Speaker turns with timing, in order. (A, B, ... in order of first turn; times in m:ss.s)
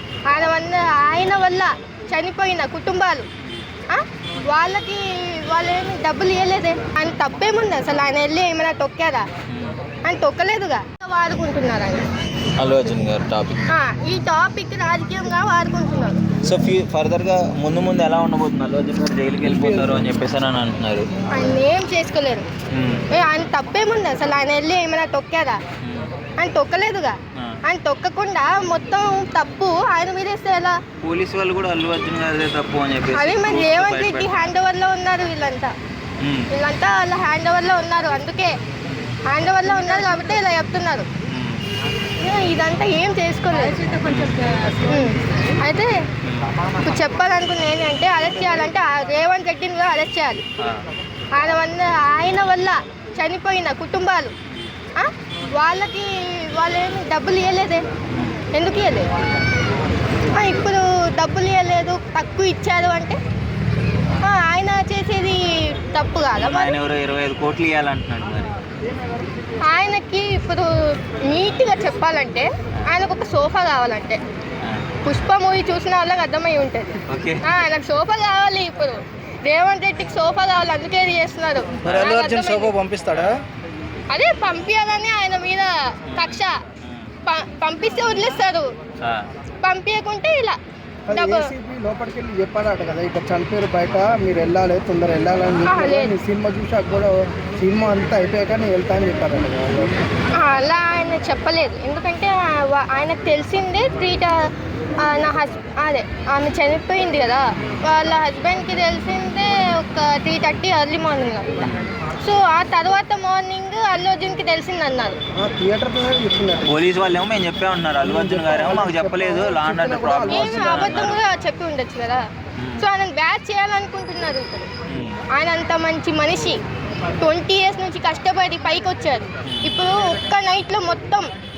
0:00.3-0:03.3 A
0:03.9-0:09.3 A
0:09.5-0:09.8 B
0:10.1-0:12.1 A
0:12.6-0:13.7 B
0:13.7-0:16.2 A
0:16.4-0:21.6 B
0:19.4-0:20.1 C
0:21.3-0:22.5 A
0:22.7-0:23.1 B
0:23.1-0:25.6 A
0:25.8-0:26.1 B
0:26.4-0:30.8 A
0:31.0-0:34.5 B
0:33.1-0:35.7 A
0:36.2-0:36.5 B
0:36.5-0:38.6 A
0:39.3-0:41.1 A
0:41.3-0:41.6 B
0:42.2-0:44.0 A
0:44.0-0:44.4 B
0:44.9-0:46.0 A
0:46.2-0:46.5 B
0:46.8-0:50.4 A
0:51.4-0:54.3 A
0:55.0-0:57.8 A
0:58.1-0:58.4 B
0:58.5-0:59.1 A
1:00.3-1:03.2 A
1:04.2-1:06.8 A
1:06.4-1:08.5 B
1:09.6-1:14.2 A
1:15.0-1:22.8 A
1:17.1-1:17.4 B
1:21.8-1:22.3 B
1:21.8-1:23.3 C
1:23.1-1:23.4 B
1:24.1-1:26.6 A
1:26.1-1:27.1 B
1:27.3-1:28.7 A
1:29.0-1:29.3 B
1:29.6-1:30.6 A
1:31.1-1:40.0 C
1:31.1-1:31.5 A
1:35.7-1:36.2 A
1:40.4-1:44.4 A
1:45.0-1:51.6 A
1:47.6-1:47.8 B
1:51.6-1:51.9 B
1:52.2-1:55.2 A
1:55.4-1:56.7 C
1:56.7-2:01.2 B
1:58.0-2:01.1 C
2:00.3-2:02.2 A
2:02.6-2:02.9 B
2:02.8-2:04.7 A
2:04.9-2:05.2 B
2:05.3-2:06.6 A
2:07.2-2:11.3 A
2:09.4-2:09.8 B